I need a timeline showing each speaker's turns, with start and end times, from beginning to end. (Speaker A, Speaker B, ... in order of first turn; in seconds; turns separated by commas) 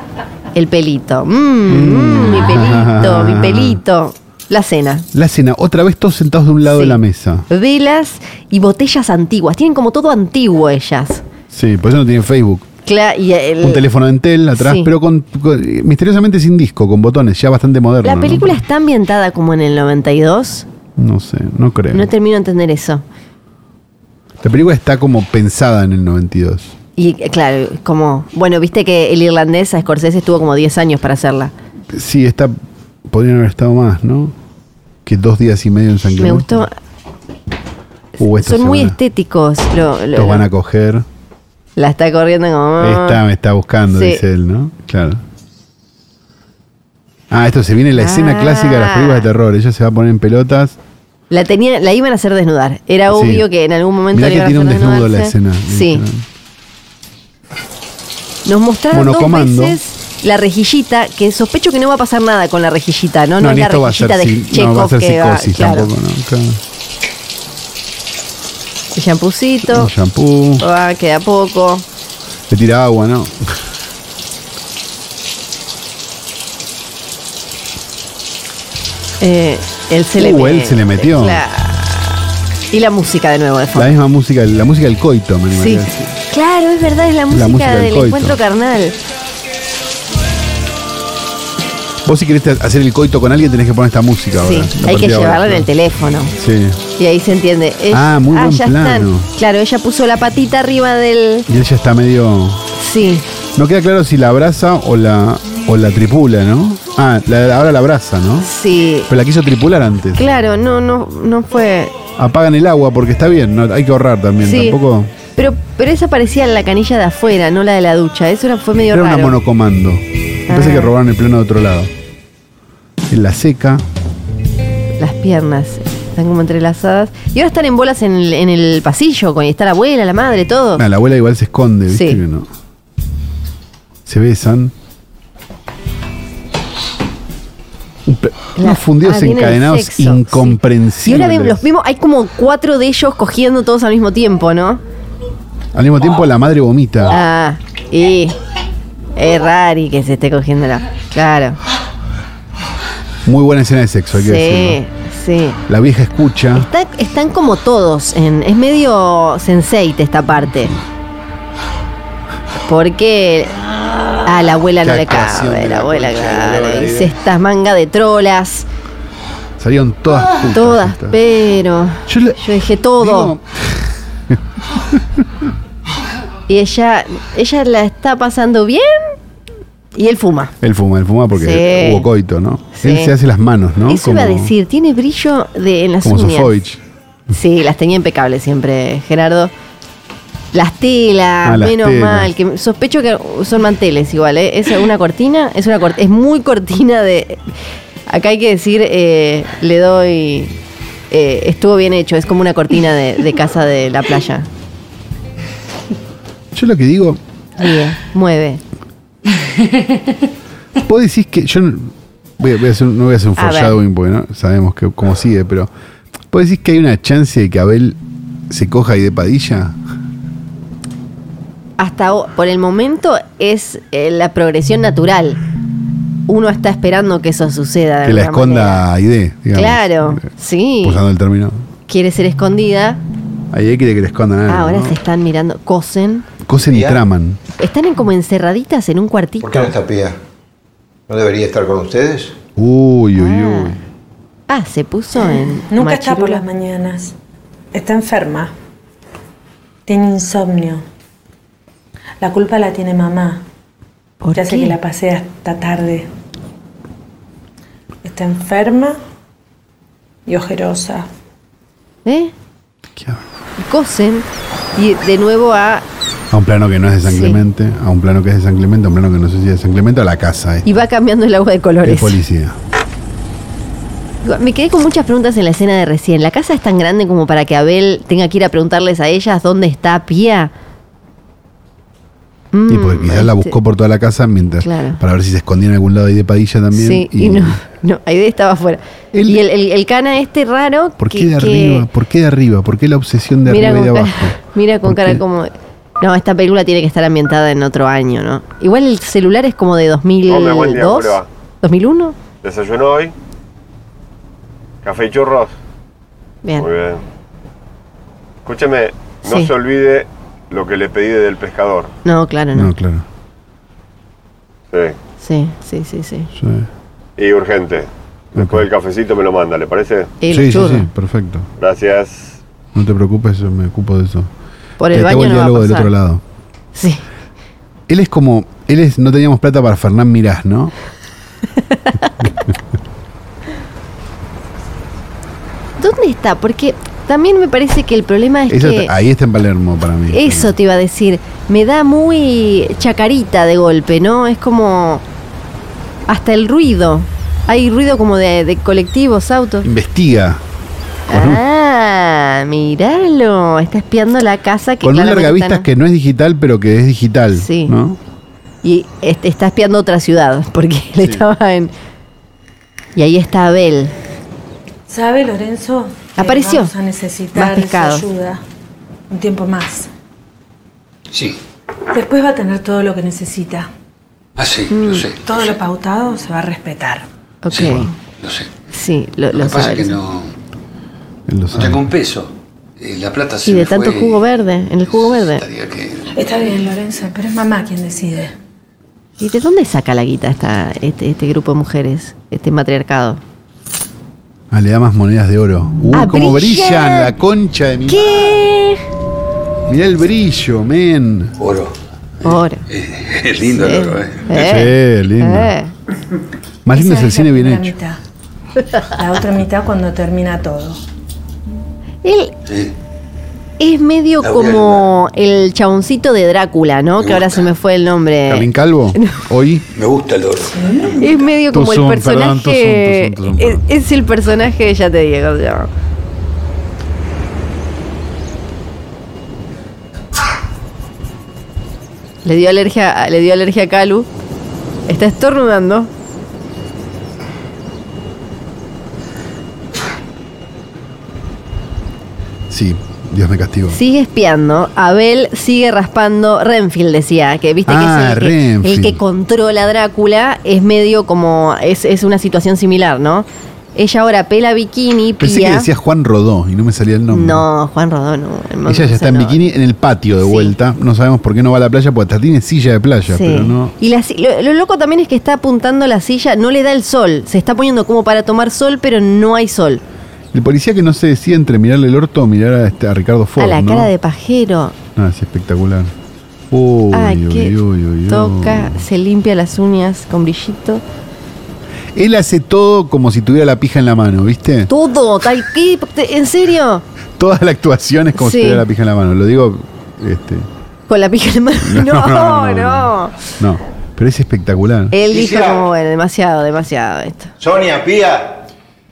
Speaker A: 0.5-5.1, Speaker B: 1.7-3.8, Speaker B: 5.1-7.5, Speaker A: 6.7-11.2, Speaker B: 11.5-12.7, Speaker A: 12.9-13.8, Speaker B: 13.6-18.6, Speaker A: 14.6-14.9, Speaker A: 18.0-20.7, Speaker B: 21.0-22.1, Speaker A: 21.9-23.0, Speaker B: 24.4-26.7, Speaker A: 27.0-31.5, Speaker B: 31.9-32.6, Speaker B: 33.1-34.4, Speaker B: 35.0-36.7, Speaker A: 36.2-36.7, Speaker B: 38.2-39.0, Speaker A: 38.2-40.5, Speaker B: 40.1-41.1, Speaker A: 41.8-43.2, Speaker B: 42.8-45.2, Speaker A: 43.9-44.2, Speaker B: 47.3-50.8, Speaker A: 47.9-49.3, Speaker A: 51.3-56.0, Speaker B: 53.1-53.5, Speaker B: 54.1-56.2, Speaker A: 58.5-65.9, Speaker B: 58.9-59.8, Speaker B: 63.4-66.6, Speaker A: 69.0-69.9, Speaker B: 69.6-70.7, Speaker A: 70.6-71.8, Speaker B: 72.5-73.5, Speaker A: 79.2-84.0, Speaker B: 80.2-81.4, Speaker B: 83.8-86.2, Speaker A: 85.5-89.0, Speaker B: 87.3-88.4, Speaker B: 92.0-95.7, Speaker A: 94.4-96.3, Speaker B: 96.3-96.8, Speaker A: 97.0-101.5, Speaker B: 97.9-99.3, Speaker B: 101.5-102.7, Speaker A: 102.8-103.2, Speaker B: 103.5-108.5, Speaker A: 108.4-109.1, Speaker B: 109.1-110.2, Speaker A: 110.2-112.0, Speaker B: 112.2-115.1, Speaker A: 114.4-114.8, Speaker A: 115.4-119.3, Speaker B: 118.9-121.9, Speaker A: 120.5-120.9, Speaker B: 123.1-123.8, Speaker A: 125.0-130.8, Speaker B: 130.8-132.5, Speaker A: 131.9-132.2, Speaker B: 134.1-134.7, Speaker B: 138.1-141.6, Speaker A: 138.6-144.8, Speaker B: 145.7-147.2, Speaker A: 147.1-148.4, Speaker A: 149.2-151.6, Speaker B: 153.2-154.8, Speaker A: 154.2-155.6, Speaker B: 155.7-156.7, Speaker A: 156.6-160.8, Speaker A: 162.7-163.6, Speaker A: 164.2-168.7, Speaker B: 164.8-167.2, Speaker B: 169.6-171.2, Speaker A: 170.5-173.3, Speaker B: 172.1-175.3, Speaker A: 176.5-179.2, Speaker A: 179.9-180.5, Speaker B: 180.6-184.5, Speaker A: 181.3-182.1, Speaker A: 182.8-183.1, Speaker A: 183.9-186.6, Speaker B: 186.0-186.8, Speaker A: 187.3-189.5, Speaker A: 190.5-197.4, Speaker B: 191.4-192.3, Speaker A: 198.1-200.6, Speaker A: 201.1-204.5, Speaker B: 206.5-207.2, Speaker A: 207.6-208.6, Speaker B: 210.8-215.7, Speaker A: 213.4-213.8, Speaker B: 216.3-218.0, Speaker B: 218.5-219.8, Speaker A: 221.8-225.4, Speaker A: 226.3-228.8, Speaker B: 228.0-230.3, Speaker A: 229.5-231.0, Speaker B: 230.8-231.7, Speaker A: 231.9-233.0, Speaker B: 233.5-235.0, Speaker A: 234.5-236.3, Speaker B: 236.4-237.4, Speaker C: 236.6-237.0, Speaker A: 237.6-239.7, Speaker C: 239.4-240.2, Speaker C: 241.1-242.4, Speaker B: 242.6-243.8, Speaker A: 243.2-243.8, Speaker A: 244.5-246.4, Speaker D: 245.7-247.2, Speaker D: 247.7-248.5, Speaker D: 249.9-250.8, Speaker D: 252.2-253.4, Speaker A: 254.2-254.8, Speaker D: 254.3-256.1, Speaker D: 258.0-259.0, Speaker D: 260.3-261.1, Speaker A: 262.1-262.3, Speaker B: 262.9-263.2, Speaker A: 263.6-265.9, Speaker B: 266.3-270.7, Speaker A: 267.1-267.4, Speaker A: 270.6-272.2, Speaker B: 271.8-272.6, Speaker A: 274.2-280.5, Speaker A: 282.5-283.6, Speaker B: 282.7-287.6, Speaker A: 284.6-285.0, Speaker A: 286.7-291.9, Speaker B: 289.1-289.4, Speaker B: 291.0-295.2, Speaker A: 293.5-302.2, Speaker E: 300.3-301.3, Speaker E: 302.4-303.1, Speaker E: 304.8-305.6, Speaker E: 306.6-307.0, Speaker E: 308.4-311.9, Speaker A: 309.2-309.5, Speaker A: 312.1-312.7, Speaker B: 312.5-313.1, Speaker E: 314.7-315.0, Speaker A: 315.2-316.3, Speaker B: 316.3-316.7, Speaker E: 317.2-320.2, Speaker B: 318.4-318.7, Speaker A: 320.2-320.9, Speaker B: 320.3-321.5, Speaker E: 321.6-322.4, Speaker B: 322.7-324.3, Speaker A: 324.8-325.9, Speaker B: 324.9-326.2, Speaker A: 326.8-327.0, Speaker B: 327.9-330.7, Speaker A: 331.8-332.1, Speaker A: 335.8-338.9, Speaker B: 338.5-340.6, Speaker A: 340.1-345.0, Speaker A: 346.1-349.7, Speaker B: 349.6-350.4, Speaker A: 351.1-355.7, Speaker B: 351.1-351.4, Speaker B: 354.8-358.0, Speaker A: 357.3-357.8, Speaker A: 358.6-361.7, Speaker A: 363.0-363.9, Speaker D: 364.9-368.4, Speaker A: 366.2-366.7, Speaker A: 367.4-368.1, Speaker D: 369.1-369.9, Speaker F: 371.1-371.4, Speaker D: 371.9-373.7, Speaker F: 374.4-375.5, Speaker A: 374.7-375.1, Speaker D: 375.2-377.1, Speaker A: 377.4-377.9, Speaker F: 377.5-378.5, Speaker A: 378.7-380.0, Speaker F: 379.3-380.3, Speaker B: 381.3-381.9, Speaker F: 381.5-384.2, Speaker A: 383.4-385.4, Speaker F: 384.9-386.1, Speaker D: 386.1-388.3, Speaker A: 389.2-393.2, Speaker B: 394.5-398.4, Speaker A: 395.9-397.1, Speaker A: 397.9-398.8, Speaker B: 399.7-401.4, Speaker F: 401.4-401.8, Speaker A: 402.2-402.6, Speaker F: 402.7-404.5, Speaker A: 403.5-405.7, Speaker B: 404.3-405.6, Speaker B: 406.6-407.8, Speaker D: 406.7-408.0, Speaker D: 408.8-410.8, Speaker A: 412.0-412.4, Speaker F: 412.5-412.7, Speaker A: 413.6-419.2, Speaker F: 414.2-414.8, Speaker F: 417.0-417.5, Speaker B: 418.3-419.7, Speaker F: 419.7-421.2, Speaker D: 420.5-421.1, Speaker A: 421.0-425.7, Speaker B: 421.5-423.6, Speaker A: 432.2-434.1, Speaker A: 434.9-435.9, Speaker B: 442.5-443.8, Speaker A: 443.7-455.7, Speaker B: 447.7-449.0, Speaker B: 455.2-457.4, Speaker A: 457.1-459.4, Speaker B: 458.7-463.7, Speaker A: 460.2-460.5, Speaker A: 463.1-469.8, Speaker B: 470.3-473.9, Speaker A: 473.4-474.8, Speaker B: 475.0-475.9, Speaker B: 476.5-478.8, Speaker A: 476.9-480.8, Speaker B: 481.9-484.7, Speaker A: 484.7-486.8, Speaker B: 487.2-490.5, Speaker A: 488.1-488.6, Speaker A: 490.9-493.2, Speaker B: 491.6-494.9, Speaker A: 494.9-497.3, Speaker C: 495.1-495.7, Speaker C: 497.4-498.5